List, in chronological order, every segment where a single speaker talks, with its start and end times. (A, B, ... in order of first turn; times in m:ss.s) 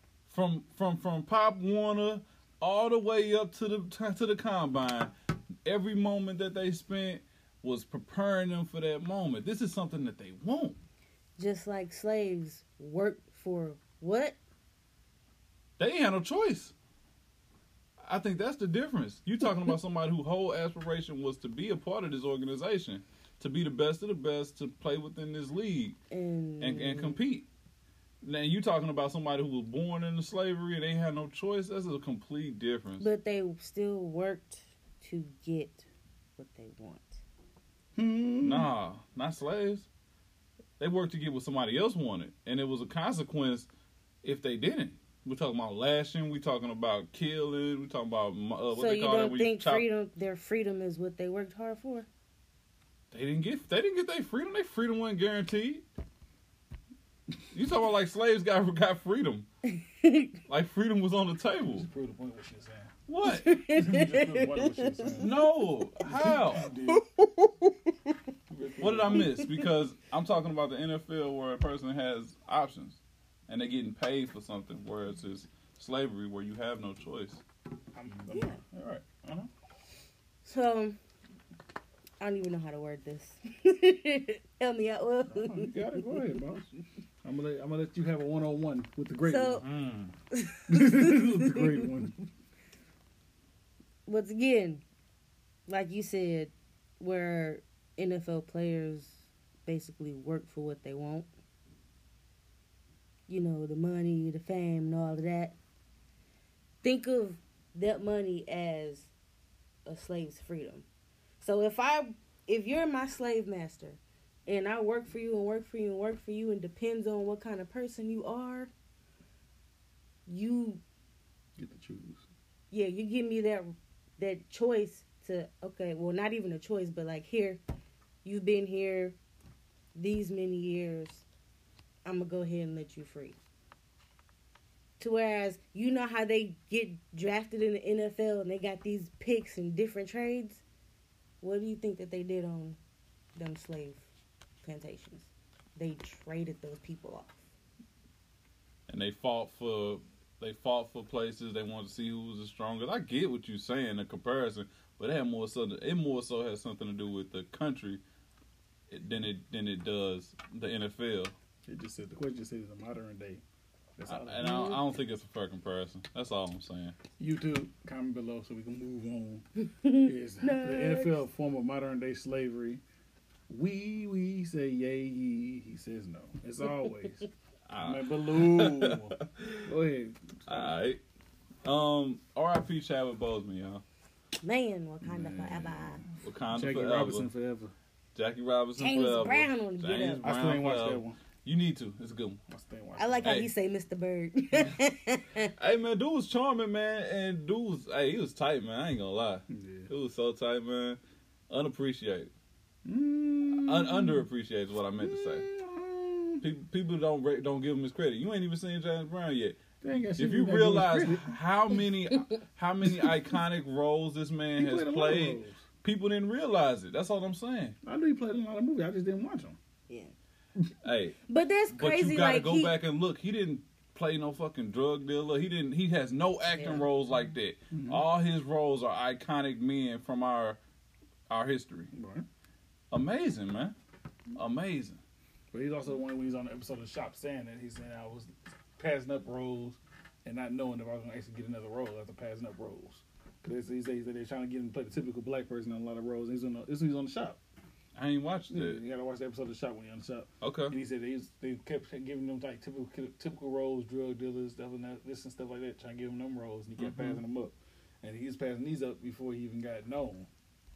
0:00.3-0:05.1 A
0:05.6-0:10.8 A
0:11.4-0:14.4 B
0:15.8-0:16.7 A
0:18.0-0:26.0 A
0:26.1-0:27.2 B
0:26.6-0:27.5 A
0:28.2-0:33.1 A
0:33.0-0:37.2 B
0:37.9-0:38.7 C
0:38.4-0:39.9 A
0:40.8-0:43.7 A
0:44.2-0:49.8 A
0:48.7-0:52.1 B
0:53.1-0:55.8 A
0:57.5-0:59.5 A
0:59.7-1:00.3 B
1:00.5-1:01.9 A
1:01.7-1:02.9 C
1:03.1-1:03.6 A
1:03.2-1:05.3 B
1:03.7-1:05.4 C
1:05.2-1:06.7 A
1:06.0-1:07.0 C
1:06.9-1:08.1 B
1:08.5-1:09.3 C
1:08.8-1:17.4 A
1:09.1-1:09.6 B
1:17.9-1:19.5 C
1:18.3-1:18.6 B
1:20.4-1:21.0 B
1:22.2-1:26.3 B
1:25.3-1:26.7 C
1:27.2-1:29.6 C
1:29.2-1:29.6 B
1:29.6-1:30.1 A
1:30.3-1:31.8 B
1:30.7-1:32.2 C
1:34.0-1:34.8 B
1:35.7-1:41.3 B
1:43.3-1:45.6 B
1:46.8-1:49.1 B
1:49.8-1:50.8 B
1:51.4-1:58.7 B
2:00.3-2:00.8 B
2:01.6-2:02.2 C
2:02.7-2:07.6 B
2:08.2-2:09.2 B
2:09.9-2:11.2 B
2:12.0-2:13.4 B
2:15.0-2:20.6 B
2:21.4-2:22.8 B
2:23.4-2:24.1 B
2:24.6-2:27.4 B
2:28.9-2:38.0 A
2:38.9-2:41.3 A
2:41.6-2:43.4 C
2:44.0-2:44.8 C
2:44.1-2:47.0 A
2:47.2-2:49.4 C
2:49.8-2:51.2 B
2:50.0-2:52.8 C
2:53.5-2:57.2 C
2:57.7-2:59.7 A
2:57.8-3:00.8 C
3:00.5-3:01.0 A
3:01.6-3:03.8 A
3:04.4-3:06.0 B
3:05.0-3:07.7 C
3:06.2-3:07.3 A
3:08.1-3:12.4 A
3:08.8-3:10.2 B
3:10.2-3:11.2 C
3:12.5-3:13.4 C
3:13.0-3:15.5 B
3:13.2-3:13.5 A
3:15.6-3:21.0 A
3:19.5-3:19.9 C
3:21.5-3:22.3 A
3:22.8-3:24.3 C
3:23.5-3:25.5 A
3:25.0-3:26.4 C
3:26.4-3:29.6 A
3:29.8-3:31.4 C
3:30.2-3:37.8 A
3:34.6-3:35.6 C
3:37.8-3:39.6 C
3:39.9-3:40.1 B
3:40.8-3:41.2 A
3:41.3-3:42.7 B
3:41.7-3:50.6 A
3:46.5-3:46.8 B
3:47.7-3:48.0 C
3:51.3-3:51.9 A
3:51.9-3:52.3 C
3:52.9-3:53.7 A
3:54.3-3:55.0 A
3:55.5-4:07.4 C
4:08.0-4:08.8 A
4:08.5-4:20.3 C
4:10.4-4:10.8 A
4:16.8-4:17.2 A